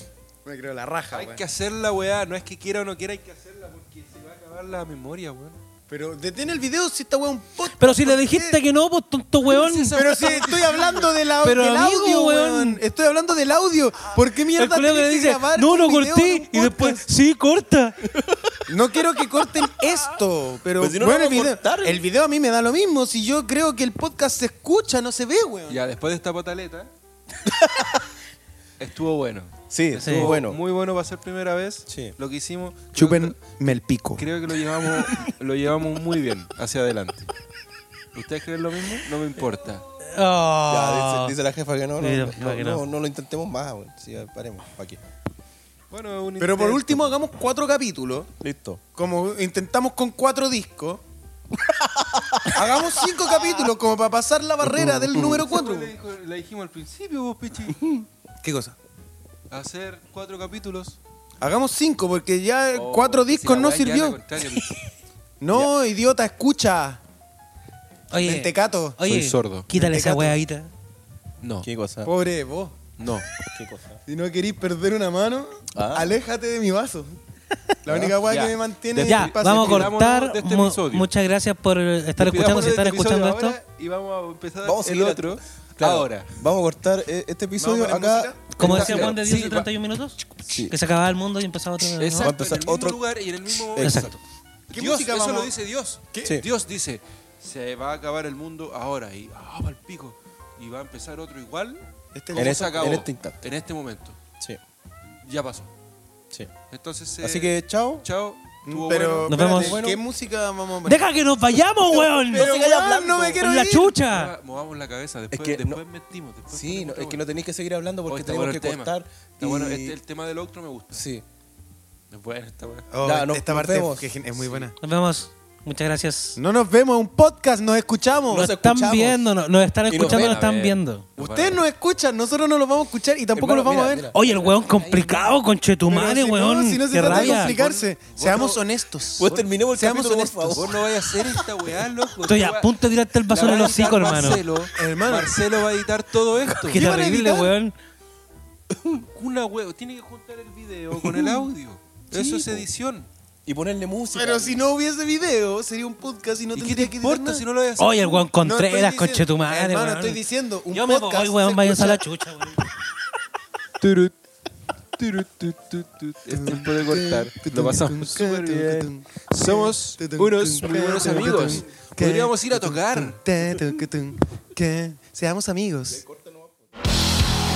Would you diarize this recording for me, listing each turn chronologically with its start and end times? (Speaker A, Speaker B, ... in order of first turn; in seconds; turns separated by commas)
Speaker A: 0.4-1.4, Speaker B: 1.1-5.6, Speaker A: 5.9-8.6, Speaker C: 7.8-10.0, Speaker B: 9.4-11.1, Speaker A: 9.9-17.1, Speaker C: 11.4-12.8, Speaker C: 14.6-18.0, Speaker D: 18.1-18.6, Speaker A: 18.7-25.8, Speaker D: 20.8-22.0, Speaker B: 25.7-26.9, Speaker D: 27.4-28.1, Speaker B: 28.8-37.3, Speaker D: 29.7-30.6, Speaker C: 30.0-30.4, Speaker D: 31.9-32.1, Speaker A: 32.9-34.2, Speaker B: 38.1-39.8, Speaker C: 40.1-41.4, Speaker D: 40.7-45.0, Speaker C: 42.0-42.8, Speaker B: 45.9-47.1, Speaker A: 46.4-48.3, Speaker D: 48.4-48.8, Speaker A: 48.9-51.0, Speaker D: 51.7-52.9, Speaker A: 52.5-55.9, Speaker D: 54.6-55.4, Speaker B: 55.2-57.8, Speaker D: 57.7-58.0, Speaker A: 58.4-58.8, Speaker B: 59.5-61.0, Speaker A: 61.4-64.2, Speaker B: 62.7-64.8, Speaker A: 65.4-67.0, Speaker C: 68.1-70.7, Speaker A: 68.1-69.0, Speaker B: 69.0-69.7, Speaker A: 69.7-70.4, Speaker B: 71.4-71.7, Speaker D: 71.6-72.1, Speaker A: 72.0-72.8, Speaker B: 73.0-73.3, Speaker D: 73.5-74.0, Speaker A: 74.1-77.2, Speaker D: 75.7-76.2, Speaker A: 77.8-79.9, Speaker D: 77.9-78.2, Speaker B: 78.2-81.1, Speaker C: 79.0-83.6, Speaker B: 82.2-86.3, Speaker D: 84.6-89.2, Speaker A: 87.6-88.4, Speaker B: 88.6-89.7, Speaker C: 88.6-92.3, Speaker D: 90.5-90.7, Speaker B: 92.0-94.2, Speaker D: 92.2-93.0, Speaker D: 93.6-94.1, Speaker C: 93.8-94.2, Speaker B: 94.7-104.2, Speaker A: 94.7-95.5, Speaker A: 102.1-103.0, Speaker D: 102.3-103.4, Speaker B: 105.2-105.7, Speaker B: 106.7-109.8, Speaker D: 107.2-108.0, Speaker A: 108.7-111.0, Speaker C: 109.3-109.8, Speaker D: 109.5-110.0, Speaker C: 110.8-112.5, Speaker D: 112.0-113.4, Speaker A: 112.0-113.9, Speaker C: 113.4-114.3, Speaker B: 114.0-117.2, Speaker D: 115.3-115.8, Speaker D: 116.5-120.0, Speaker B: 118.1-121.1, Speaker D: 120.9-121.2, Speaker B: 122.1-122.9, Speaker A: 122.9-124.7, Speaker D: 123.0-124.1, Speaker B: 124.3-124.7, Speaker C: 124.8-126.4, Speaker A: 126.4-128.5, Speaker D: 128.3-129.3, Speaker C: 128.5-131.1, Speaker D: 129.9-130.4, Speaker B: 129.9-131.6, Speaker A: 131.2-134.1, Speaker D: 133.3-134.2, Speaker C: 134.1-137.5, Speaker B: 134.2-135.3, Speaker A: 135.9-140.7, Speaker B: 137.0-138.6, Speaker D: 139.2-140.8, Speaker B: 140.5-142.8, Speaker C: 142.2-144.4, Speaker B: 143.3-146.8, Speaker A: 144.8-145.4, Speaker A: 146.7-147.5, Speaker C: 146.7-147.7, Speaker D: 148.7-149.1, Speaker B: 149.1-153.1, Speaker D: 151.0-151.4, Speaker D: 152.1-152.7, Speaker D: 153.4-154.6, Speaker A: 154.1-157.4, Speaker B: 156.6-158.3, Speaker C: 157.8-162.7, Speaker A: 158.4-162.0, Speaker B: 163.8-164.1, Speaker B: 165.0-173.2, Speaker A: 166.3-176.0, Speaker D: 171.0-171.6, Speaker D: 175.9-176.7